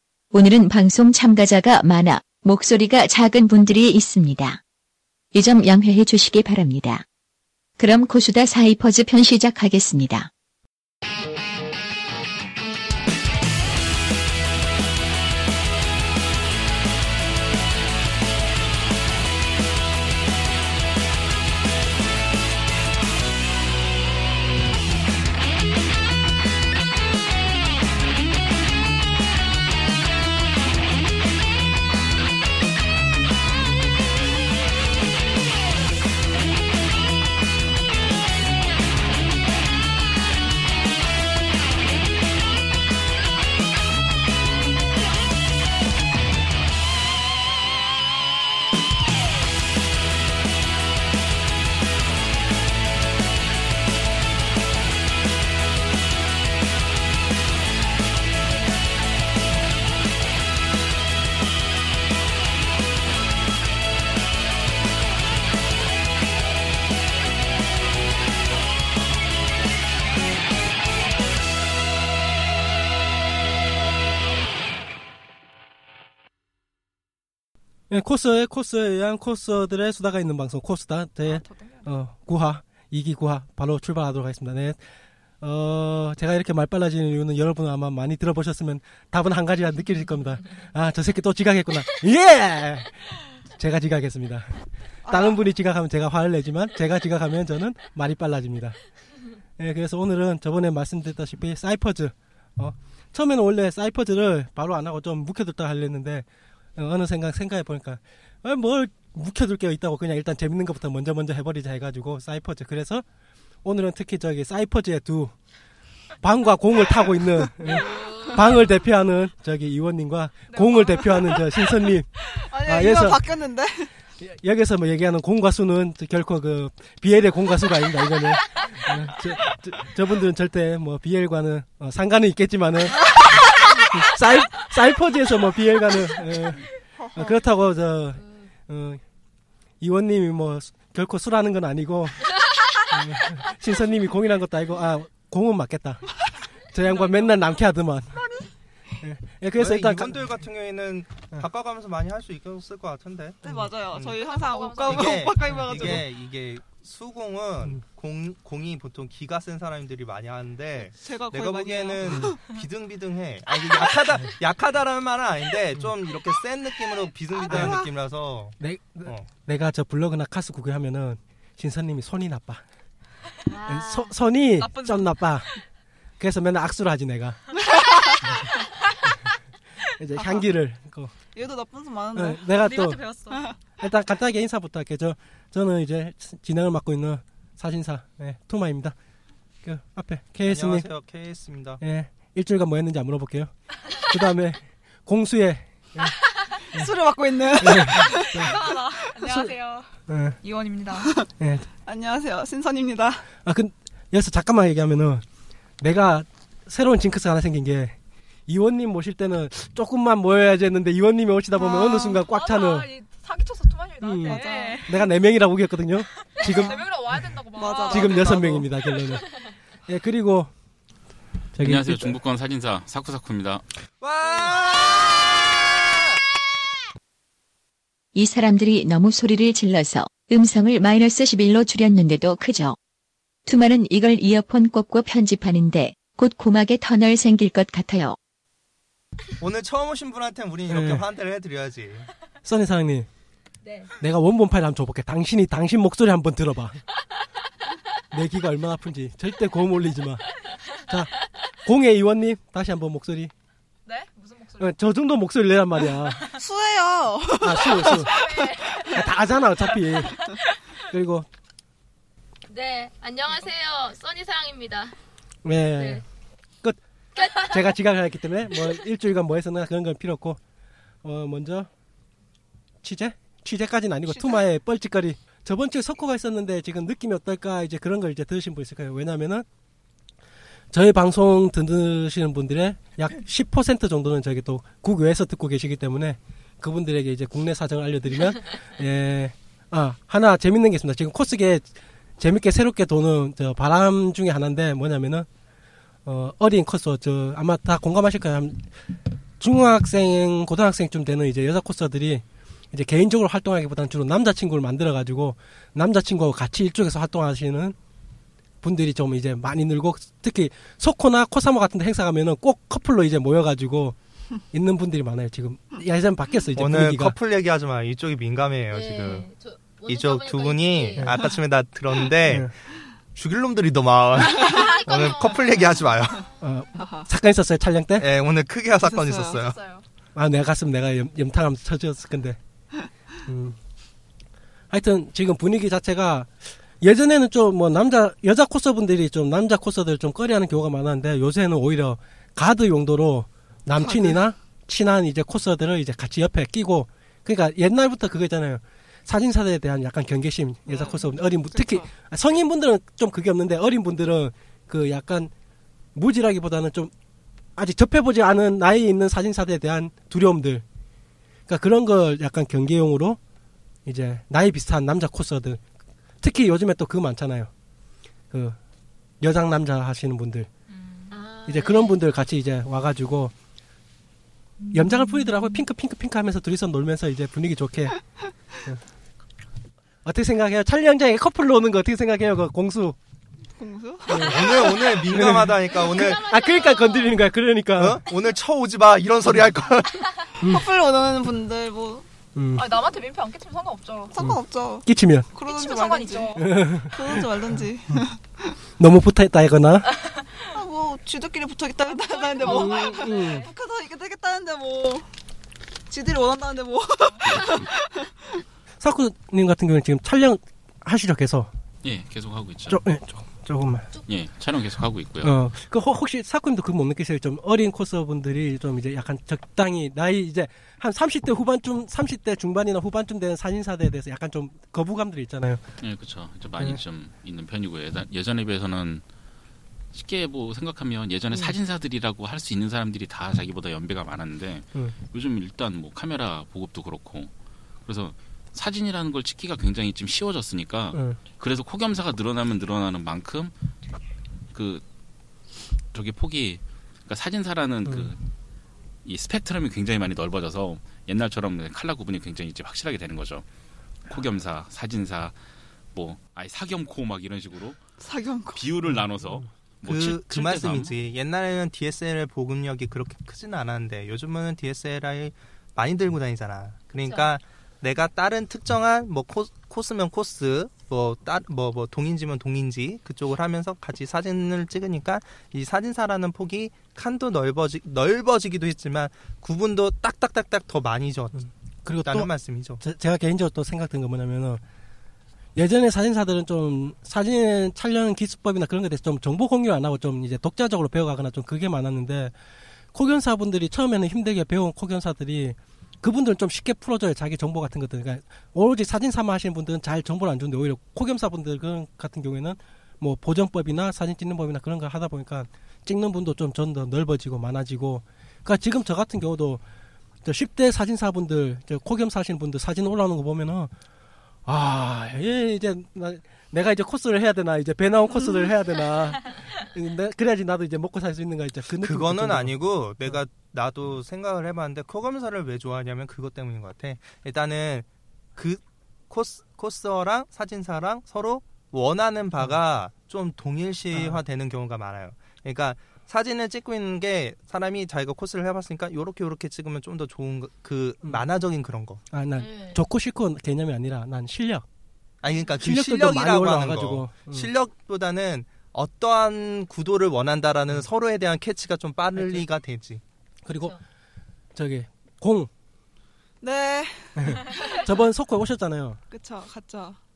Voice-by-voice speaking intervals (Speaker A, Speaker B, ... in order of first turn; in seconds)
Speaker A: 0.3-4.6, 5.3-7.0, 7.8-10.3, 228.2-232.8, 233.5-238.2
Speaker B: 77.9-84.8, 85.4-92.9, 93.6-94.5, 95.1-98.8, 99.6-113.0, 113.6-115.3, 116.2-122.1, 122.7-123.2, 124.2-133.2, 133.9-139.0, 139.8-142.3, 142.9-146.0, 146.7-148.2, 149.0-150.1, 167.5-167.8, 168.6-172.6, 173.7-175.5, 176.2-177.4, 180.0-181.1, 182.2-183.0, 183.8-188.9, 189.6-190.9, 191.8-193.5, 194.0-196.2, 197.6-198.6, 199.3-199.5, 200.1-200.4, 201.4-201.7, 203.4-205.2, 205.8-207.9, 208.5-212.9, 214.0-216.8, 217.9-219.3, 219.9-220.5, 221.6-222.2, 240.7-241.0, 242.4-243.1, 244.0-246.8, 248.1-250.2, 251.7-253.3, 254.6-256.3, 257.4-258.1, 258.9-260.2, 260.9-261.3, 265.4-266.0, 267.4-270.4, 271.0-271.7, 272.8-279.5, 280.7-291.6, 292.2-295.3, 296.1-298.7, 299.4-307.8, 308.6-314.0, 314.5-317.1, 326.4-328.1, 330.1-332.4, 333.3-333.6, 334.7-355.3, 355.9-356.9, 357.6-360.6, 361.5-363.2, 363.9-365.6, 366.2-367.5, 368.3-368.6, 369.2-370.5, 371.5-373.3, 374.7-378.0, 380.1-383.0, 384.1-388.0, 392.4-392.6, 394.2-395.3, 396.4-397.2, 398.8-399.9, 402.4-403.5, 408.8-411.5, 412.7-413.9, 415.2-425.6, 440.9-441.2, 481.4-484.6, 485.6-492.3, 492.9-509.6, 510.2-513.7, 514.5-523.1, 533.9-534.2, 542.1-544.6, 545.6-547.5, 552.1-552.5, 553.5-553.8, 554.5-555.5, 557.2-559.0
Speaker C: 81.2-81.9, 120.5-121.5, 146.8-147.6, 154.2-155.3, 174.6-175.2, 182.5-183.4, 198.0-199.9, 200.4-201.1, 211.8-215.0, 216.4-218.5, 253.9-254.8, 257.8-259.1, 260.2-260.5, 329.4-329.8, 370.7-371.1, 374.7-375.5, 392.6-394.1, 395.5-396.5, 402.0-403.4
Speaker D: 95.0-95.4, 122.5-123.9, 137.0-137.4, 153.4-156.1, 161.0-162.4, 167.4-167.9, 177.8-178.2, 181.3-182.5, 183.3-183.6, 196.7-198.7, 201.8-203.2, 211.7-212.0, 214.2-214.9, 216.5-216.9, 217.6-218.7, 256.3-258.9, 274.1-274.4, 326.8-327.1, 328.8-329.4, 343.8-344.3, 350.7-351.9, 383.6-385.0, 390.4-392.1, 394.1-398.5, 400.5-405.1, 405.9-408.1, 458.0-458.7, 556.4-557.5, 559.1-560.0
Speaker E: 149.6-154.2, 154.8-169.3, 190.5-191.8, 224.0-225.8, 239.4-242.1, 316.6-319.3, 319.9-322.5, 323.2-326.2, 328.0-329.6, 384.2-386.2, 387.8-390.1, 459.9-481.5, 482.1-482.8, 521.8-542.0, 545.2-553.0
Speaker F: 221.6-223.6, 411.8-412.8, 414.1-415.4, 425.8-429.0, 429.9-437.3, 437.9-443.5, 444.5-444.8, 445.9-448.2, 449.1-453.5, 454.1-455.4, 455.9-457.8, 458.5-460.9
Speaker G: 243.6-243.9, 262.5-264.9, 265.8-266.0, 267.2-267.6, 318.7-321.2, 324.2-326.3, 371.1-372.0, 385.6-387.2, 542.4-542.8